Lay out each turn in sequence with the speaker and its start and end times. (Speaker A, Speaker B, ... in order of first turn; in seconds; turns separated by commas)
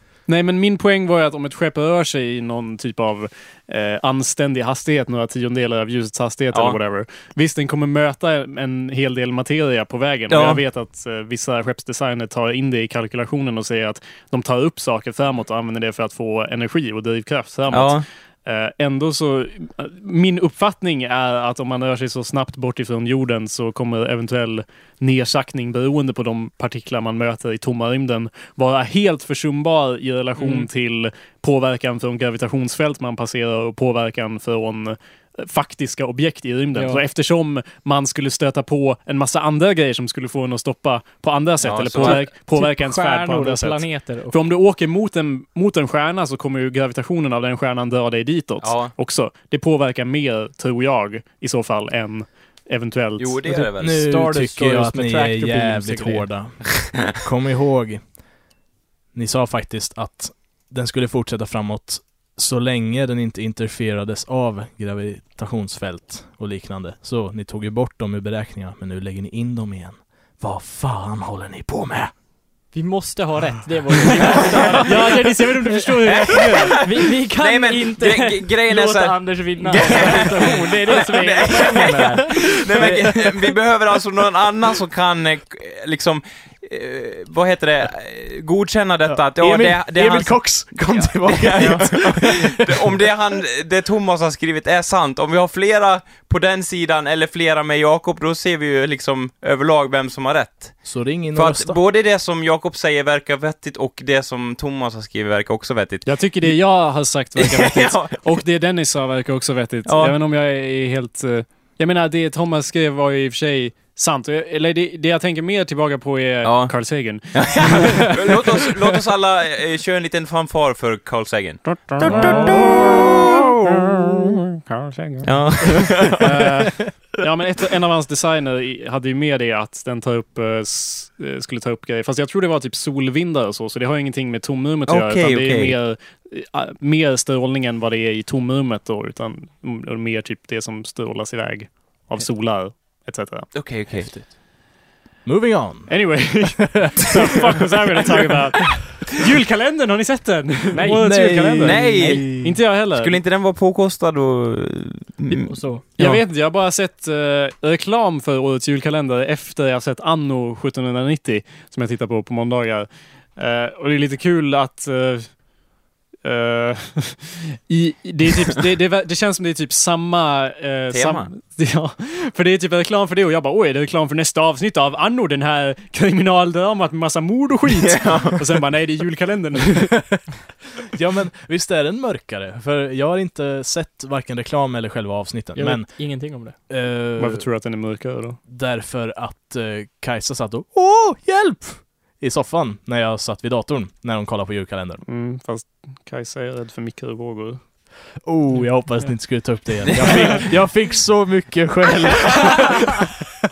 Speaker A: 0.3-53.5, Speaker B: 6.5-6.8, Speaker B: 10.3-10.6, Speaker B: 17.7-18.1, Speaker C: 30.4-30.7, Speaker C: 36.8-37.0, Speaker B: 41.6-42.2, Speaker C: 42.0-44.4, Speaker B: 48.6-48.9, Speaker B: 53.2-54.0, Speaker C: 53.5-56.3, Speaker D: 53.6-58.2, Speaker D: 59.1-72.1, Speaker C: 72.7-83.0, Speaker A: 74.8-76.7, Speaker B: 76.1-106.5, Speaker D: 81.9-83.4, Speaker D: 89.0-93.0, Speaker D: 100.8-101.8, Speaker A: 106.0-118.7, Speaker B: 107.4-108.1, Speaker B: 109.8-110.2, Speaker B: 116.4-116.7, Speaker B: 117.3-123.7, Speaker A: 121.7-122.8, Speaker D: 122.0-122.4, Speaker A: 123.8-143.5, Speaker B: 125.2-126.3, Speaker B: 134.9-135.7, Speaker B: 143.5-144.1, Speaker D: 143.9-144.3, Speaker D: 145.2-146.5, Speaker A: 145.9-153.2, Speaker C: 150.7-151.3, Speaker D: 151.0-152.6, Speaker B: 151.6-152.4, Speaker B: 152.9-155.5, Speaker C: 155.3-155.8, Speaker A: 156.0-165.4, Speaker D: 156.0-156.2, Speaker A: 166.2-180.2, Speaker B: 170.9-171.3, Speaker B: 177.7-178.5, Speaker D: 180.9-187.5, Speaker C: 185.6-186.6, Speaker A: 187.2-188.4, Speaker D: 188.5-195.0, Speaker A: 195.1-197.6, Speaker D: 198.2-202.9